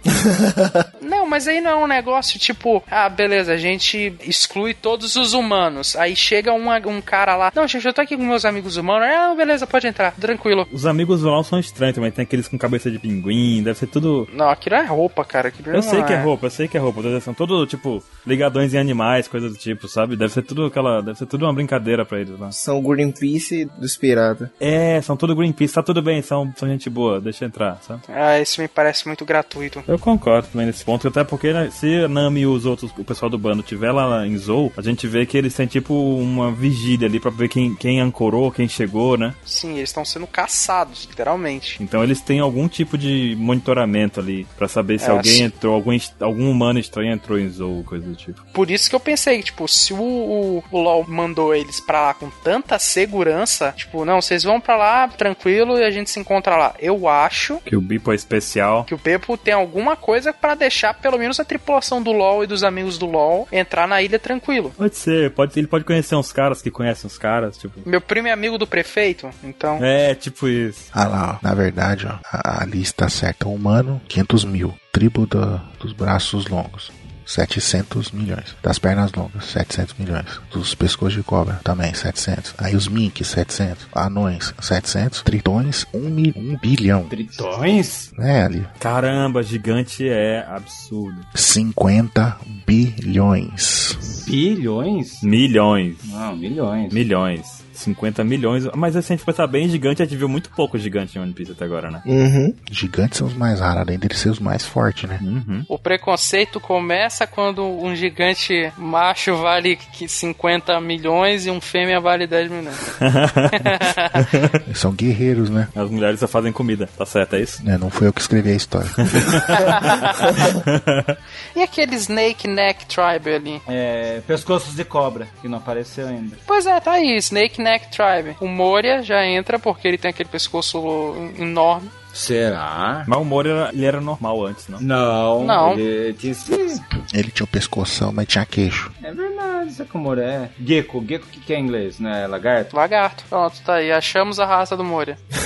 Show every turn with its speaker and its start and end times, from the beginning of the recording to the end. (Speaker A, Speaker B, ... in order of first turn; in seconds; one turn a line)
Speaker A: 1.0-10.7
Speaker B: 10.7-14.3
Speaker A: 14.3-16.3
Speaker B: 15.7-22.5
Speaker C: 22.5-24.5
Speaker B: 24.6-28.0
Speaker A: 28.1-29.9
Speaker B: 29.9-39.4
Speaker A: 39.5-41.8
Speaker B: 41.8-48.4
Speaker A: 45.0-45.5
Speaker A: 48.5-57.6
Speaker B: 57.6-58.9
Speaker A: 58.9-64.7
Speaker B: 64.8-67.8
Speaker A: 67.8-69.8
Speaker B: 69.8-70.9
Speaker D: 70.9-87.1
Speaker E: 87.1-88.1
Speaker D: 88.2-88.7
Speaker B: 88.8-91.3
Speaker D: 91.3-94.0
Speaker E: 94.2-95.2
Speaker B: 95.2-96.1
Speaker E: 96.0-97.0
Speaker B: 96.9-102.0
Speaker C: 102.0-102.6
Speaker D: 102.7-105.2
Speaker B: 105.2-105.7
Speaker A: 105.7-112.8
Speaker B: 112.8-114.6
Speaker A: 113.6-114.2
Speaker D: 114.7-115.7
Speaker B: 115.7-117.6
Speaker D: 117.6-119.5
Speaker B: 119.0-121.2
Speaker A: 119.8-120.4
Speaker A: 121.5-123.6
Speaker E: 123.7-126.4
Speaker A: 126.5-131.9
Speaker E: 132.1-133.1
Speaker B: 133.1-134.8
Speaker E: 134.8-136.8
Speaker A: 135.4-135.8
Speaker D: 137.1-138.9
Speaker E: 139.0-142.7
Speaker A: 142.7-145.2